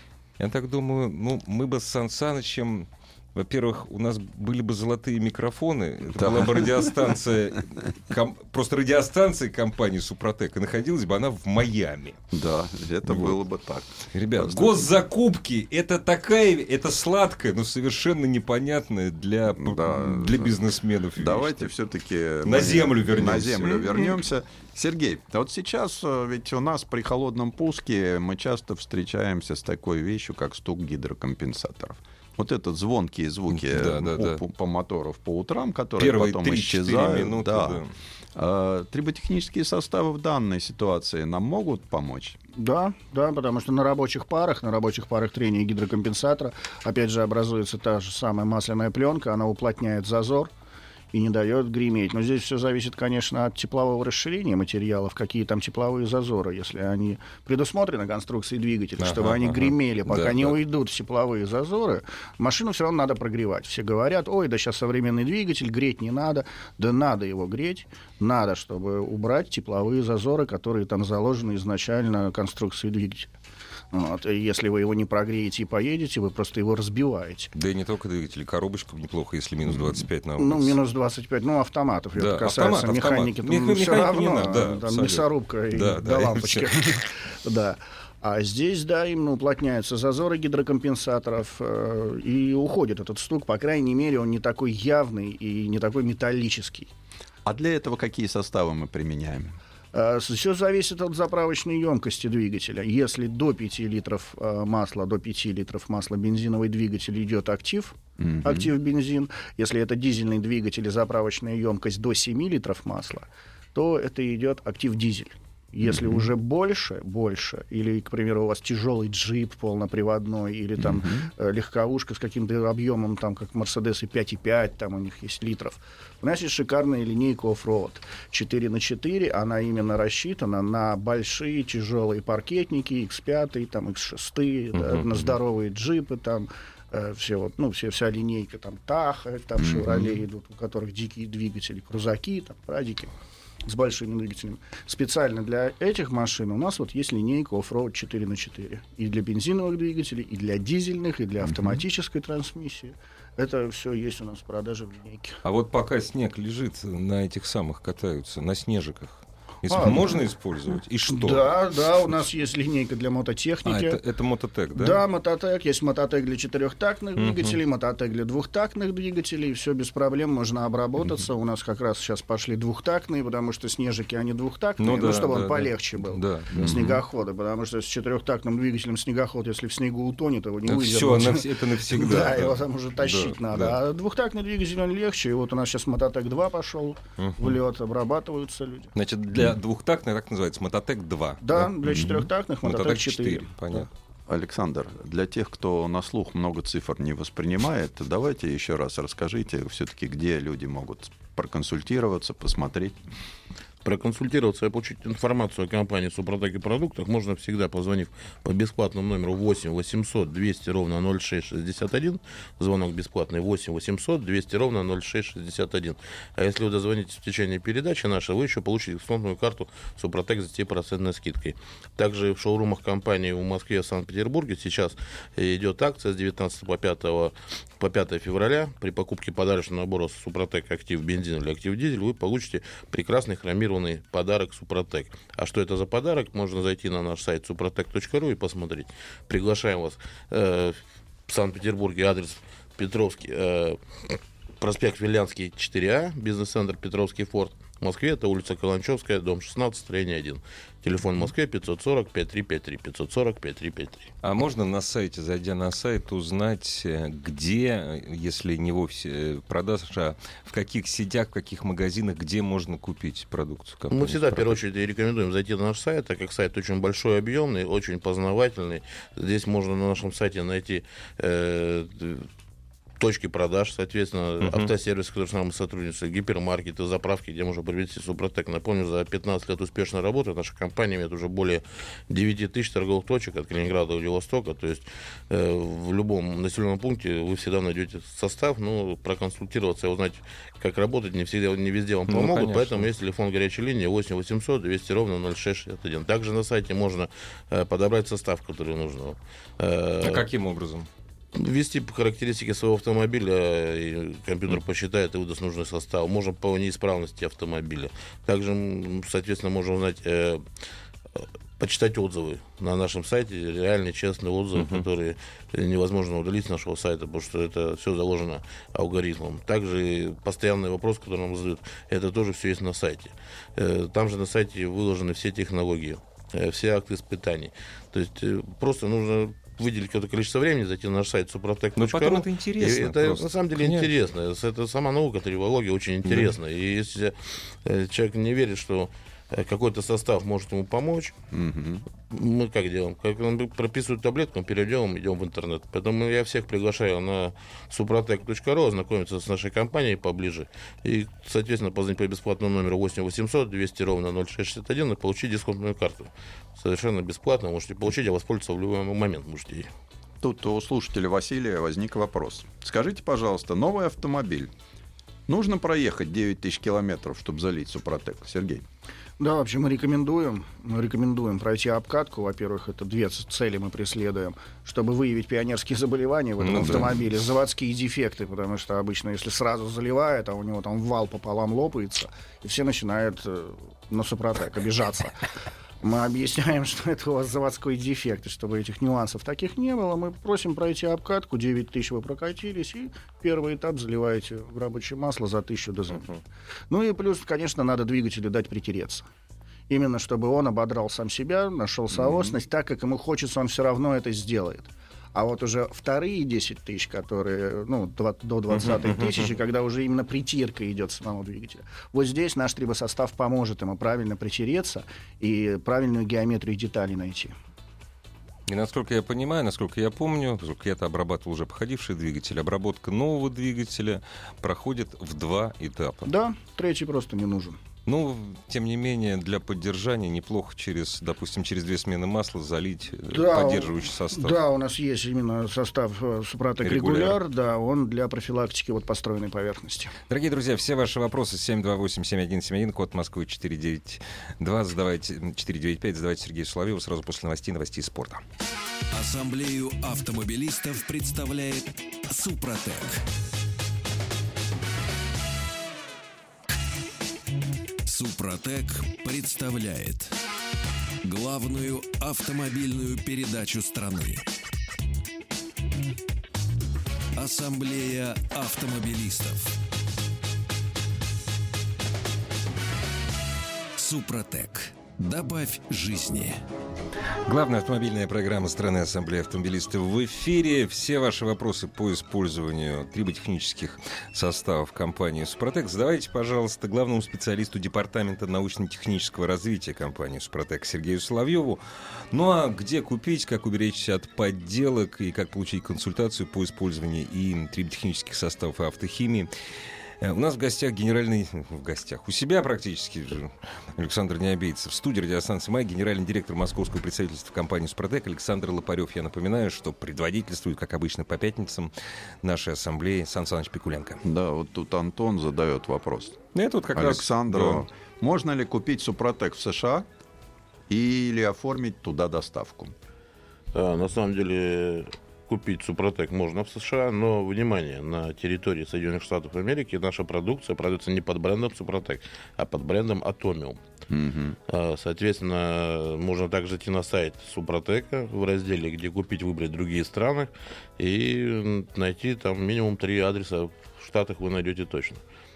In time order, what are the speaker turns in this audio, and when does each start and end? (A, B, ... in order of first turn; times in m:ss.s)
0:00.4-0:12.2 A
0:06.1-0:07.1 B
0:12.3-0:14.9 B
0:13.1-0:13.4 A
0:14.1-0:21.7 A
0:19.5-0:20.5 B
0:21.2-0:37.8 B
0:22.4-0:24.2 A
0:33.5-0:34.4 A
0:36.0-0:37.9 A
0:38.4-0:42.4 B
0:42.5-0:50.5 C
0:51.1-1:13.3 C
0:59.0-1:00.6 A
1:13.9-1:17.5 C
1:17.5-1:20.8 A
1:19.6-1:20.0 B
1:20.4-1:36.9 C
1:22.1-1:26.8 A
1:37.4-1:39.6 B
1:39.9-2:23.1 C
1:48.2-1:48.7 B
1:55.9-1:56.3 B
2:00.8-2:01.3 B
2:14.8-2:15.2 A
2:19.6-2:20.1 B
2:23.6-2:35.4 C
2:35.4-2:41.5 A
2:39.7-2:40.2 C
2:41.1-2:44.0 C
2:43.6-2:45.0 A
2:44.8-3:09.0 C
2:47.2-2:47.6 A
2:54.8-2:57.0 A
2:56.6-2:56.9 B
3:00.6-3:03.8 A
3:07.2-3:07.5 A
3:09.0-3:13.9 A
3:11.4-3:13.9 C
3:11.9-3:12.2 B
3:14.3-3:23.0 B
3:23.8-4:14.1 D
4:14.2-4:24.6 A
4:23.9-4:32.3 D
4:33.0-5:00.2 D
4:34.4-4:34.7 A
4:52.1-4:52.9 A
5:00.0-5:00.9 A
5:01.4-5:10.4 D
5:11.1-5:41.1 D
5:14.6-5:14.8 A
5:31.8-5:33.9 A
5:36.0-5:36.3 A
5:41.3-5:41.8 B
5:42.1-5:59.7 D
6:00.2-6:04.5 B
6:05.3-6:08.6 B
6:09.2-6:25.2 C
6:16.4-6:17.0 A
6:25.8-6:36.2 C
6:36.7-6:39.1 C
6:39.7-6:57.3 C
6:41.9-6:42.4 B
6:48.6-6:49.3 A
6:58.5-7:06.1 A
7:06.0-7:07.6 C
7:07.8-7:14.4 A
7:13.1-7:19.9 C
7:16.6-7:17.2 A
7:20.1-7:28.2 A
7:28.9-7:33.0 E
7:37.8-7:40.2 E
7:41.0-7:44.2 E
7:47.2-7:49.5 E
7:53.8-7:56.4 E
7:57.3-8:19.3 A
8:20.0-8:31.7 A
8:32.2-8:34.0 A
8:34.0-8:36.2 B
8:36.3-8:37.6 A
8:36.7-8:39.9 B
8:40.7-8:42.7 B
8:43.5-8:53.6 D
8:53.9-8:54.4 B
8:54.5-9:05.0 D